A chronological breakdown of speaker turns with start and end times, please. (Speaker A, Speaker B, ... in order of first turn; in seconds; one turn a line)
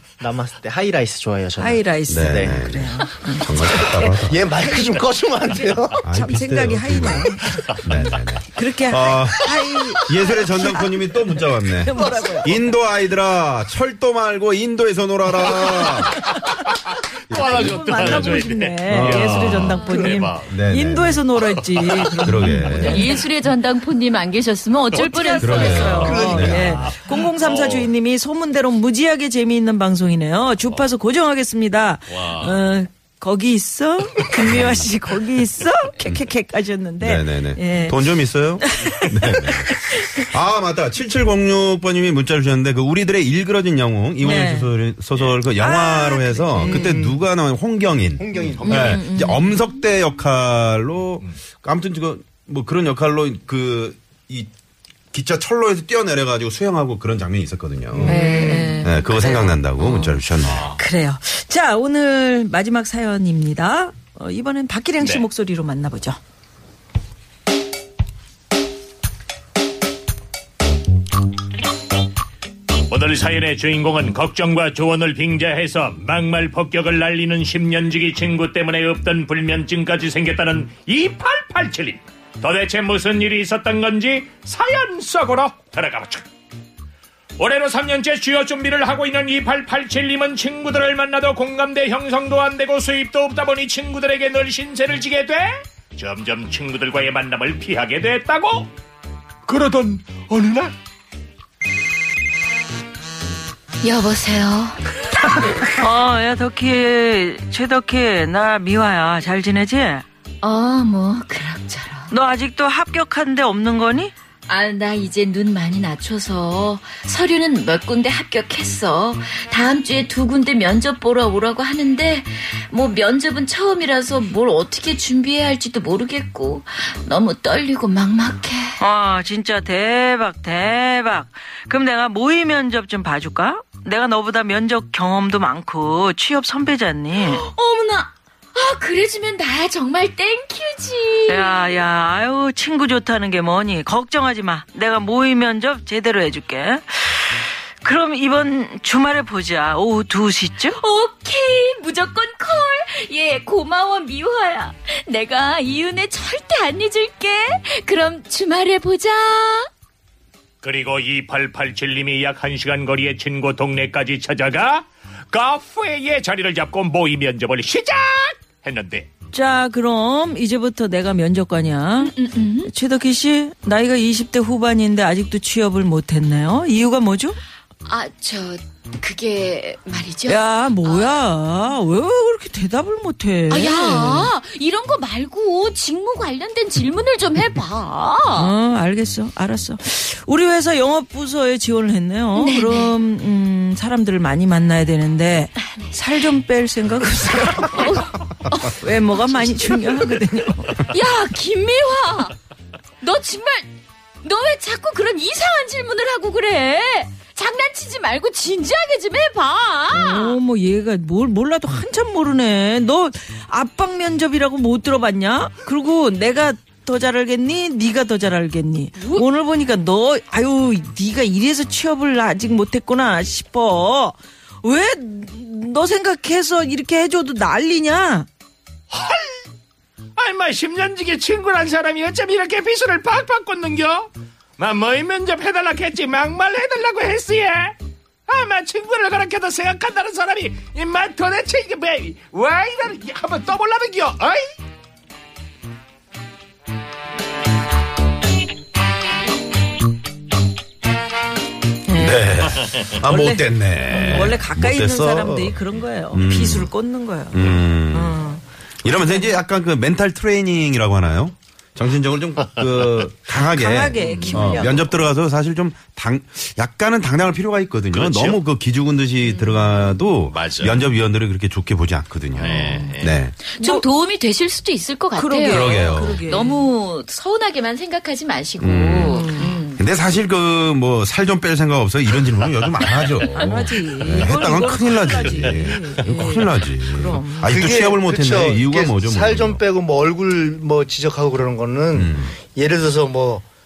Speaker A: 0.2-2.6
Speaker B: 1.6-4.2
Speaker C: 2.1-4.5
Speaker D: 4.1-6.0
Speaker C: 6.0-16.2
Speaker B: 6.1-12.6
Speaker D: 12.1-12.3
Speaker E: 15.6-16.7
Speaker C: 17.3-19.6
Speaker E: 17.3-20.5
Speaker B: 17.3-23.2
Speaker F: 19.7-20.1
Speaker C: 20.4-21.2
Speaker E: 21.8-22.1
Speaker C: 22.2-23.0
Speaker F: 22.6-26.3
Speaker B: 24.9-40.2
Speaker C: 25.4-26.9
Speaker D: 26.0-26.9
Speaker E: 26.9-27.9
Speaker E: 32.1-32.6
Speaker C: 34.4-34.9
Speaker C: 37.0-54.5
Speaker B: 44.2-44.7
Speaker B: 45.5-47.1
Speaker D: 46.6-47.2
Speaker D: 48.2-49.0
Speaker B: 48.6-49.5
Speaker C: 55.1-58.2
Speaker D: 57.9-58.8
Speaker B: 58.0-60.2
Speaker F: 58.1-58.8
Speaker C: 58.8-60.7
Speaker E: 60.5-60.8
Speaker B: 60.7-66.2
Speaker E: 72.9-86.2
Speaker E: 87.4-98.7
Speaker E: 99.5-100.7
Speaker F: 103.8-105.4
Speaker B: 105.6-110.0
Speaker F: 110.4-112.1
Speaker B: 112.1-114.1
Speaker F: 114.5-128.8
Speaker B: 128.8-137.4
Speaker F: 137.2-141.8
Speaker B: 141.3-150.8
Speaker F: 150.7-159.7
Speaker E: 160.6-169.1
Speaker B: 169.3-177.4
Speaker F: 172.0-172.7
Speaker F: 177.8-181.2
Speaker B: 180.3-184.3
Speaker F: 183.5-188.5
Speaker B: 188.3-198.0
Speaker F: 192.3-192.9
Speaker F: 197.7-198.8
Speaker B: 198.6-200.9
Speaker F: 200.8-202.3
Speaker F: 203.0-210.4
Speaker B: 209.9-228.3
Speaker F: 219.0-219.2
Speaker E: 228.9-229.4
Speaker E: 230.2-237.7
Speaker E: 238.3-244.5
Speaker B: 251.9-252.3
Speaker C: 251.9-256.7
Speaker B: 253.0-259.4
Speaker C: 257.3-258.2
Speaker C: 258.8-273.3
Speaker B: 263.5-265.0
Speaker E: 264.0-264.5
Speaker E: 267.9-268.4
Speaker F: 269.3-269.9
Speaker E: 270.2-270.8
Speaker E: 272.4-273.2
Speaker B: 272.5-272.9
Speaker F: 273.4-279.8
Speaker B: 273.6-273.9
Speaker B: 275.1-276.7
Speaker C: 275.4-276.2
Speaker C: 278.6-279.2
Speaker B: 279.1-279.6
Speaker C: 279.7-289.6
Speaker B: 283.3-287.7
Speaker D: 287.5-293.4
Speaker C: 291.9-292.3